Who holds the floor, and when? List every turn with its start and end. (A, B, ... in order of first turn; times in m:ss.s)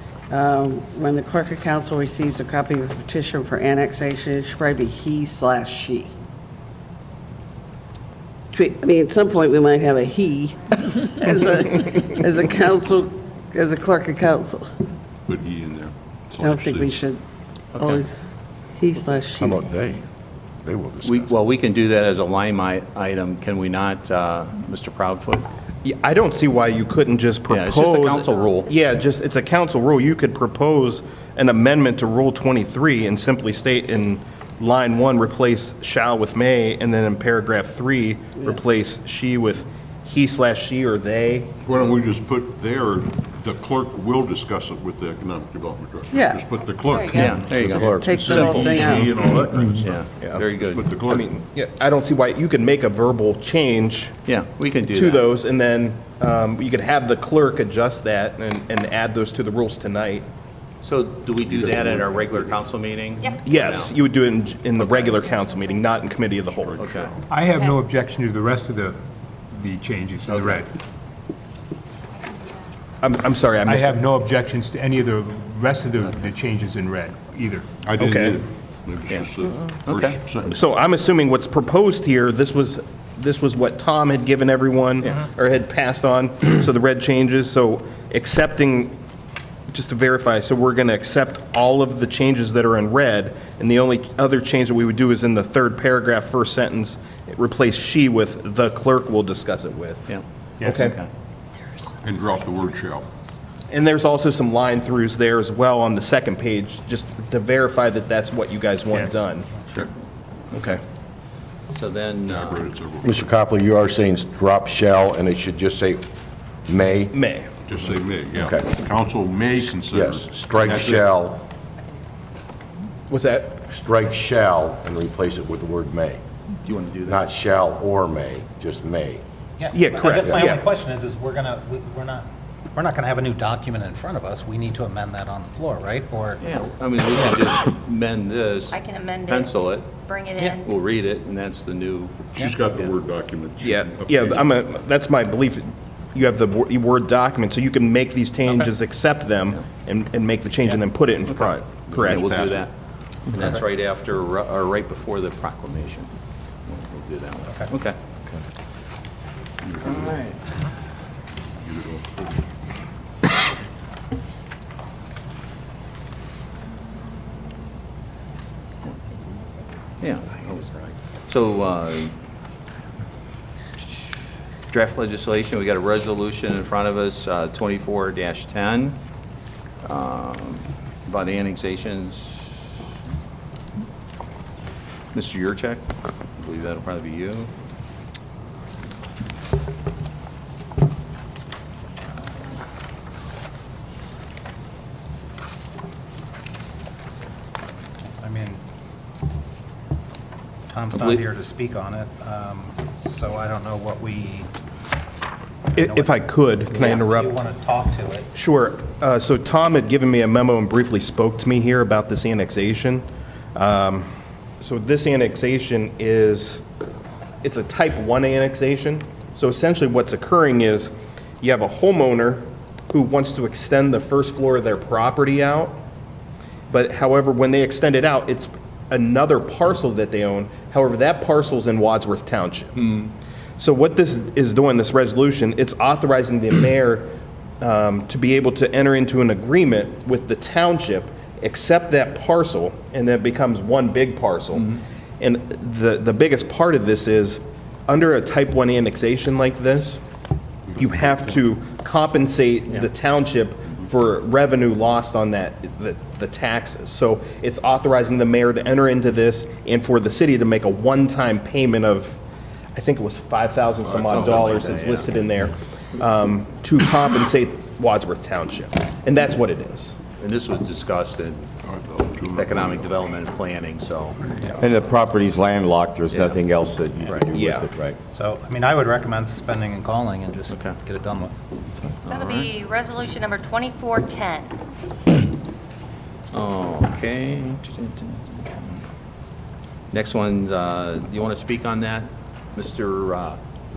0:00.3-0:06.1 A
0:08.5-0:14.7 A
0:15.3-0:17.1 B
0:16.4-0:17.2 A
0:17.7-0:18.0 C
0:17.8-0:18.1 A
0:18.8-0:19.7 A
0:19.4-0:20.0 D
0:20.6-0:21.3 D
0:21.0-0:25.5 C
0:25.8-0:41.5 E
0:27.5-0:28.7 C
0:41.6-0:51.3 B
0:46.1-0:46.4 A
0:46.9-0:47.3 F
0:47.0-0:49.1 A
0:47.1-0:48.9 C
0:49.8-0:50.9 C
0:51.0-0:54.2 E
0:54.2-0:55.3 C
0:54.8-1:00.3 E
1:00.8-1:03.9 C
1:01.4-1:02.6 B
1:03.4-1:06.9 E
1:04.8-1:05.1 C
1:06.6-1:07.2 B
1:06.8-1:07.1 C
1:07.3-1:10.7 G
1:10.2-1:10.6 B
1:13.0-1:14.0 E
1:13.6-1:18.3 G
1:17.8-1:20.6 B
1:18.0-1:18.3 E
1:19.1-1:20.2 C
1:20.5-1:29.0 E
1:29.7-1:40.1 E
1:40.1-1:41.1 C
1:40.6-1:40.9 G
1:40.6-1:41.0 E
1:42.0-1:43.1 B
1:43.7-1:49.6 E
1:48.9-1:49.2 G
1:50.5-1:50.8 E
1:51.7-1:52.7 C
1:52.2-1:53.3 B
1:53.0-1:56.0 D
1:56.7-1:57.1 D
1:57.1-1:57.5 E
1:57.7-2:01.1 B
1:58.4-1:58.8 D
1:59.9-2:01.4 D
2:03.1-2:03.5 E
2:03.6-2:06.2 D
2:06.6-2:07.2 C
2:07.0-2:09.2 D
2:09.6-2:16.4 H
2:09.7-2:10.6 E
2:16.4-2:19.9 C
2:18.7-2:20.7 F
2:20.6-2:22.2 C
2:22.3-2:24.6 B
2:22.4-2:22.6 H
2:23.6-2:32.6 E
2:31.3-2:32.7 C
2:33.3-2:36.1 C
2:36.7-2:38.0 C
2:39.6-2:40.3 B
2:39.8-2:40.4 C
2:41.6-2:42.1 B
2:50.0-2:52.1 C
2:54.7-2:59.0 C
2:59.8-3:02.7 C
3:05.1-3:05.8 C
3:06.4-3:07.5 C
3:18.2-3:18.6 H
3:20.7-3:24.5 H
3:21.0-3:21.2 C
3:25.7-3:27.3 E
3:25.8-3:26.2 H
3:26.7-3:28.3 H
3:28.3-3:34.1 E
3:34.6-3:36.6 E
3:37.4-3:45.8 E
3:46.7-3:53.0 E
3:53.6-4:10.0 E
4:10.7-4:11.2 B
4:10.8-4:22.2 E
4:22.7-4:30.0 E
4:24.0-4:25.2 C
4:30.2-4:31.4 C
4:31.6-4:33.1 B
4:32.4-4:34.4 C
4:34.6-4:38.0 I
4:36.1-4:36.4 C
4:37.0-4:37.3 C
4:37.3-4:37.7 E
4:38.1-4:41.4 H
4:40.5-4:40.8 C
4:42.0-4:42.5 C
4:42.0-4:44.5 F
4:46.3-4:48.8 C
4:49.9-4:53.4 C